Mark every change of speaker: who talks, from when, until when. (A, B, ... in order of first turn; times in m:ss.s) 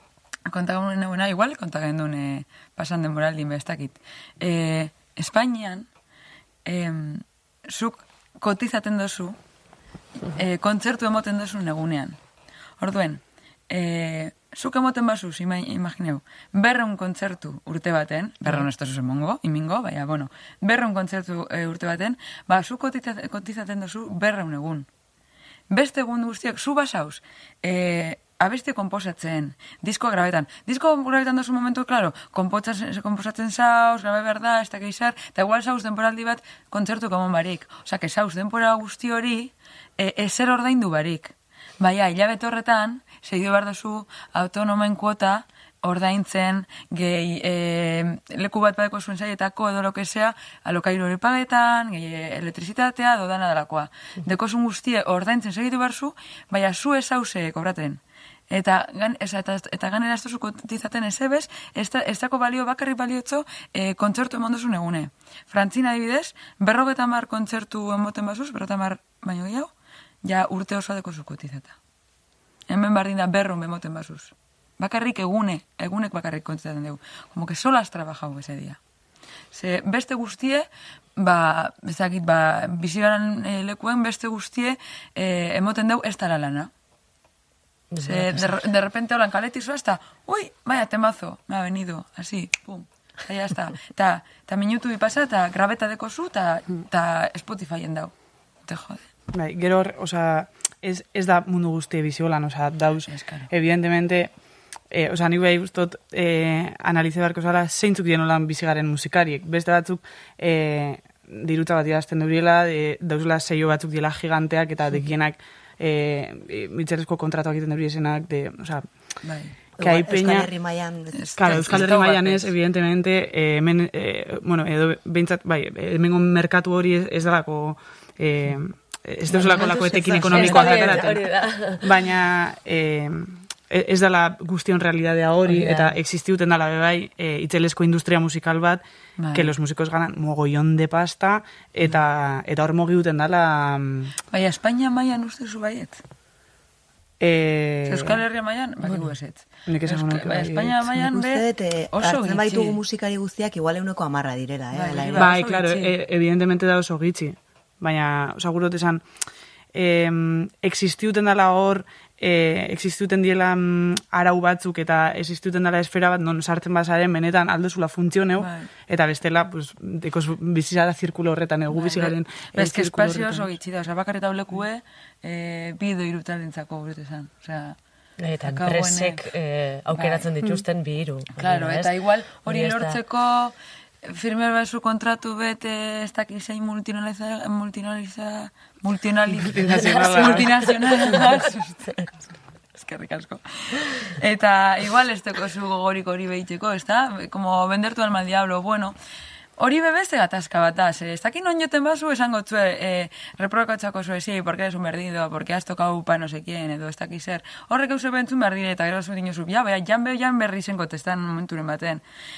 0:00.5-0:05.9 A
0:06.6-0:09.4 A
0:10.3-0:12.2 A
0:12.8-0:24.9 A
0:25.7-1:09.7 A
1:10.2-1:11.7 A
1:12.7-1:18.8 A
1:19.5-1:26.7 A
1:27.9-1:28.6 B
1:28.0-1:38.1 A
1:38.6-1:39.0 A
1:39.3-1:44.3 C
1:43.1-1:43.5 A
1:44.9-1:58.9 C
1:59.2-1:59.5 A
1:59.8-2:01.8 D
1:59.8-2:00.5 C
2:01.1-2:02.5 A
2:01.4-2:11.3 C
2:09.3-2:11.8 B
2:09.8-2:11.0 D
2:10.3-2:10.8 A
2:11.8-2:18.8 C
2:15.4-2:15.9 B
2:19.2-2:19.5 A
2:19.3-2:24.1 C
2:24.3-2:26.0 A
2:27.2-2:28.2 C
2:27.8-2:32.8 A
2:29.7-2:30.9 C
2:31.0-2:35.3 D
2:34.7-2:35.9 A
2:35.2-2:39.0 C
2:39.7-2:53.5 C
2:48.4-2:48.7 A
2:51.7-2:57.8 A
2:58.2-3:01.9 B
2:58.4-2:59.2 A
2:59.9-3:00.3 A
3:01.4-3:12.1 A
3:02.4-3:03.0 B
3:09.3-3:11.5 C
3:12.7-3:18.9 A
3:19.6-3:32.0 A